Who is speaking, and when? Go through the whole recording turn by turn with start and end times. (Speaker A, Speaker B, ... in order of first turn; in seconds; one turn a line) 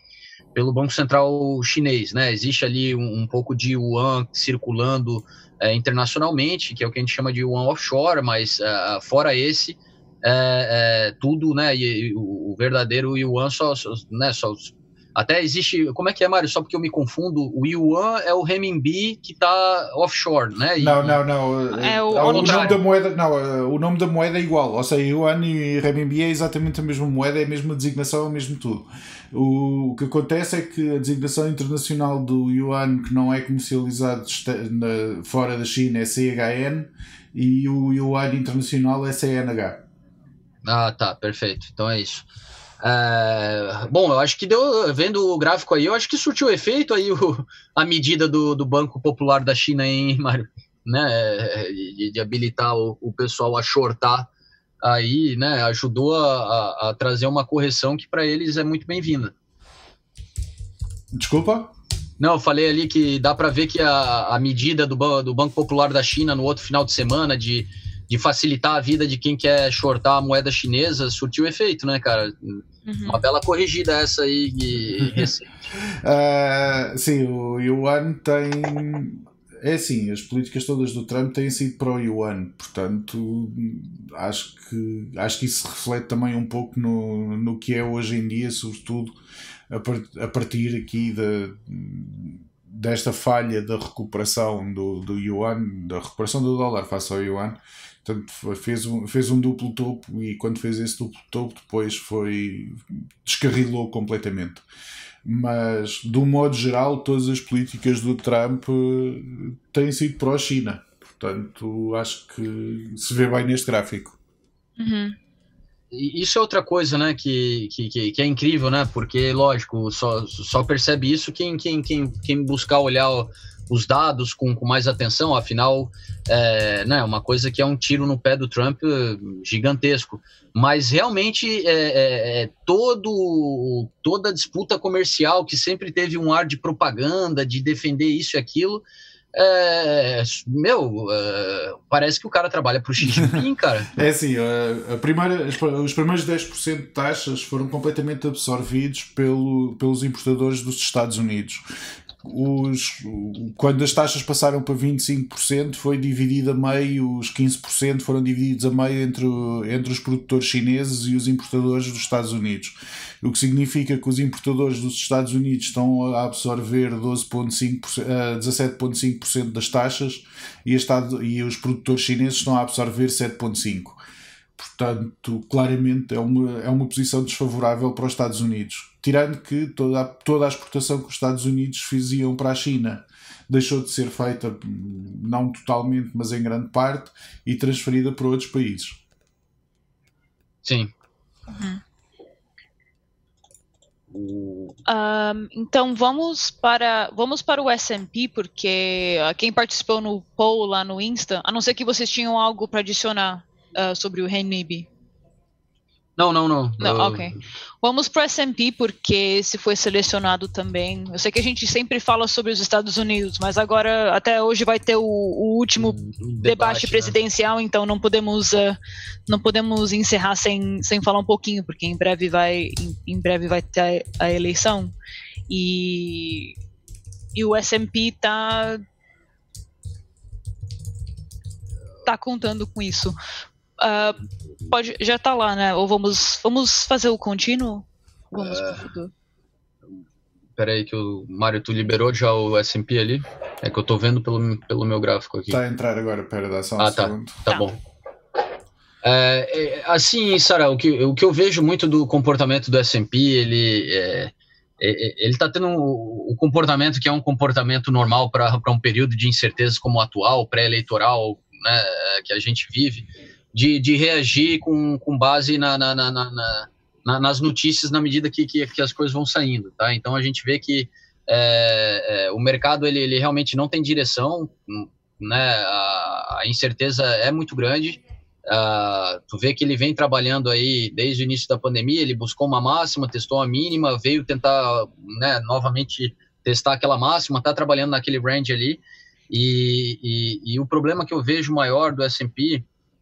Speaker A: 0.5-21.2
Speaker B: 20.8-39.8
Speaker C: 21.7-22.8
Speaker A: 22.2-22.8
Speaker A: 40.6-42.3
Speaker A: 42.8-54.3
Speaker A: 54.8-59.3
Speaker B: 61.1-61.7
Speaker A: 62.2-75.7
Speaker C: 72.8-73.2
Speaker B: 75.0-89.1
Speaker B: 89.7-104.6
Speaker B: 105.2-114.2
Speaker C: 114.8-115.2
Speaker A: 115.9-143.9
Speaker B: 143.0-151.6
Speaker B: 152.2-174.0
Speaker B: 174.6-189.0
Speaker A: 190.6-190.9
Speaker C: 191.5-191.8
Speaker A: 194.1-194.8
Speaker C: 194.9-204.9
Speaker A: 206.2-207.4
Speaker C: 206.8-224.9
Speaker A: 215.8-217.1
Speaker C: 225.5-226.5
Speaker C: 227.3-228.8
Speaker C: 232.1-233.2
Speaker C: 233.8-239.1
Speaker A: 238.4-238.8
Speaker A: 240.6-245.6
Speaker B: 245.5-247.5
Speaker A: 246.8-247.8
Speaker A: 249.0-292.6